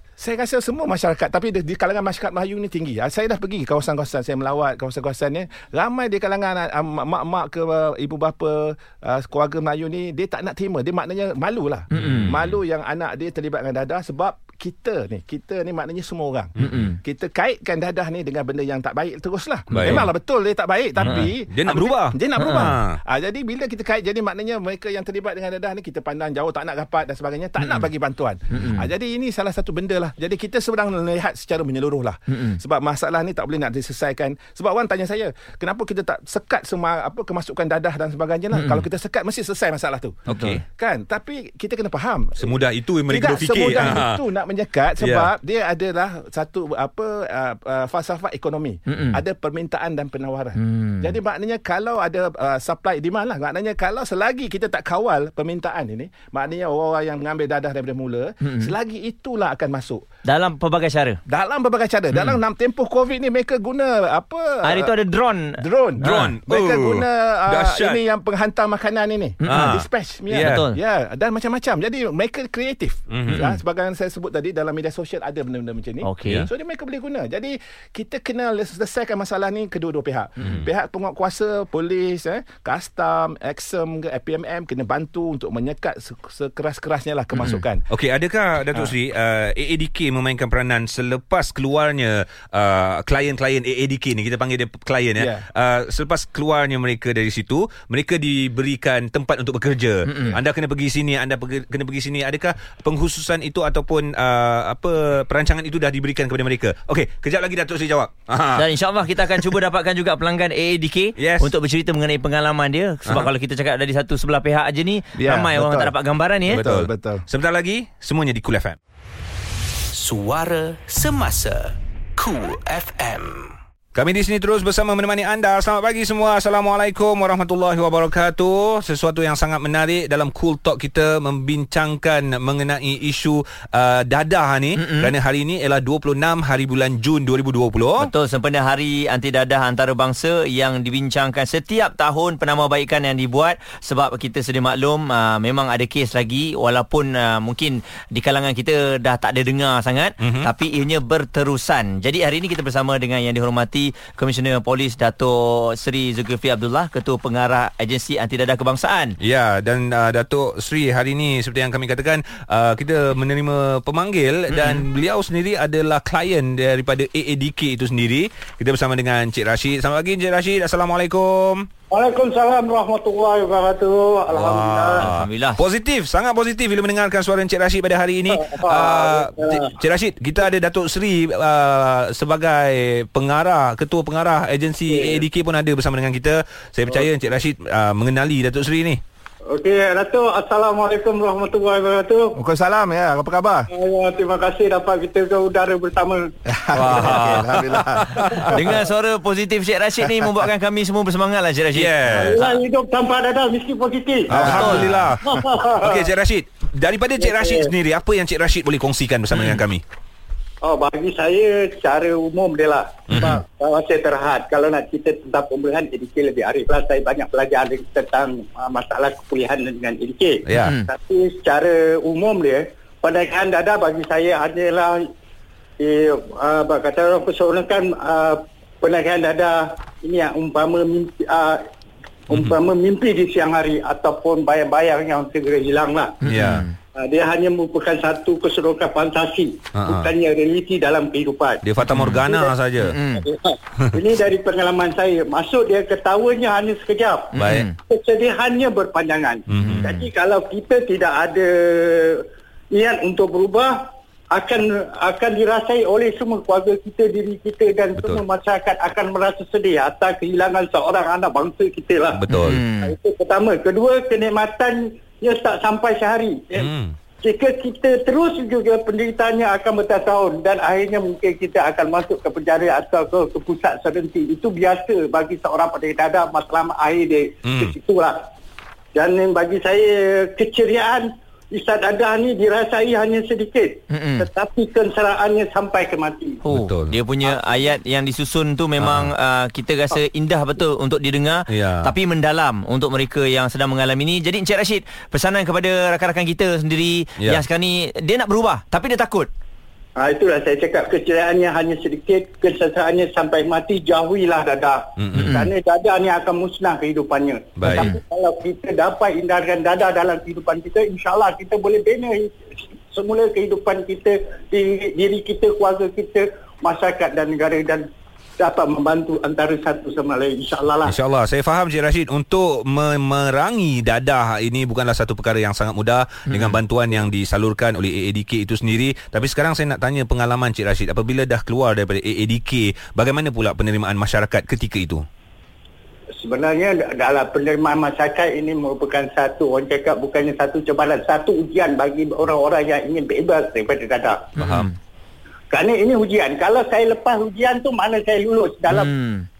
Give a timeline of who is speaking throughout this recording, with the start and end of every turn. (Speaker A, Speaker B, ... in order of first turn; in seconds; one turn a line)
Speaker A: 0.2-42.6
Speaker B: 11.9-12.3
Speaker C: 11.9-12.6
Speaker C: 16.6-16.9
Speaker B: 16.6-17.0
Speaker B: 19.7-20.1
Speaker C: 19.7-20.1
Speaker C: 21.0-23.0
Speaker B: 22.4-22.7
Speaker B: 28.5-28.9
Speaker B: 32.3-32.6
Speaker B: 38.5-38.8
Speaker C: 40.3-40.6
Speaker B: 40.3-40.6
Speaker C: 42.4-44.2
Speaker A: 43.1-60.0
Speaker C: 45.0-45.3
Speaker B: 48.9-49.2
Speaker B: 50.6-51.1
Speaker B: 58.4-58.7
Speaker B: 60.3-61.2
Speaker A: 61.3-64.9
Speaker B: 64.6-66.3
Speaker A: 65.6-87.9
Speaker C: 66.0-68.0
Speaker B: 69.4-69.8
Speaker C: 69.5-70.7
Speaker B: 70.3-70.8
Speaker C: 73.1-73.5
Speaker B: 73.3-73.5
Speaker B: 76.0-76.5
Speaker C: 87.9-108.7
Speaker A: 95.2-95.4
Speaker B: 100.1-100.4
Speaker B: 108.5-116.6
Speaker C: 109.2-109.5
Speaker C: 111.2-111.5
Speaker A: 115.2-117.2
Speaker C: 116.5-118.8
Speaker D: 119.9-123.5
Speaker C: 123.9-138.1
Speaker B: 134.8-135.1
Speaker B: 138.0-159.2
Speaker C: 150.2-150.5
Speaker C: 159.2-171.7
Speaker B: 164.5-164.8
Speaker E: 171.9-175.1
Speaker C: 174.3-189.0
Speaker B: 175.0-175.6
Speaker E: 178.3-179.8
Speaker E: 184.9-185.2
Speaker E: 189.5-192.4
Speaker A: 192.4-193.7
Speaker E: 193.7-196.3
Speaker A: 196.5-198.5
Speaker C: 196.7-198.7
Speaker B: 198.4-202.6
Speaker C: 201.8-202.4
Speaker E: 202.1-206.1
Speaker C: 204.3-209.8
Speaker B: 204.4-204.9
Speaker A: 204.4-205.1
Speaker E: 207.2-207.7
Speaker E: 210.6-225.1
Speaker C: 213.1-213.4
Speaker C: 220.4-220.8
Speaker B: 220.6-220.9
Speaker E: 225.8-231.6
Speaker E: 232.3-236.2
Speaker C: 232.3-232.6
Speaker B: 236.2-236.7
Speaker C: 236.3-236.7
Speaker E: 236.9-241.7
Speaker C: 239.8-240.1
Speaker C: 241.6-243.0
Speaker B: 241.9-242.2
Speaker E: 242.2-242.6
Speaker B: 242.8-243.2
Speaker E: 243.2-278.2
Speaker B: 247.3-247.7
Speaker C: 247.4-247.7
Speaker C: 249.5-250.1
Speaker C: 258.0-258.2
Speaker C: 262.1-262.6
Speaker B: 262.3-262.9
Speaker C: 266.6-266.9
Speaker C: 277.4-277.8
Speaker E: 278.9-286.4
Speaker B: 283.9-284.3
Speaker B: 286.4-299.3
Speaker C: 286.5-286.9
Speaker C: 288.8-289.1
Speaker C: 291.5-291.9
Speaker E: 300.0-312.3
Speaker C: 305.0-305.4
Speaker B: 305.1-305.5
Speaker C: 307.6-307.9
Speaker B: 307.7-308.0
Speaker E: 312.9-321.0
Speaker C: 320.8-335.1
Speaker E: 336.2-344.3
Speaker C: 344.4-344.7
Speaker B: 344.4-344.7
Speaker E: 345.5-348.9
Speaker B: 348.7-349.3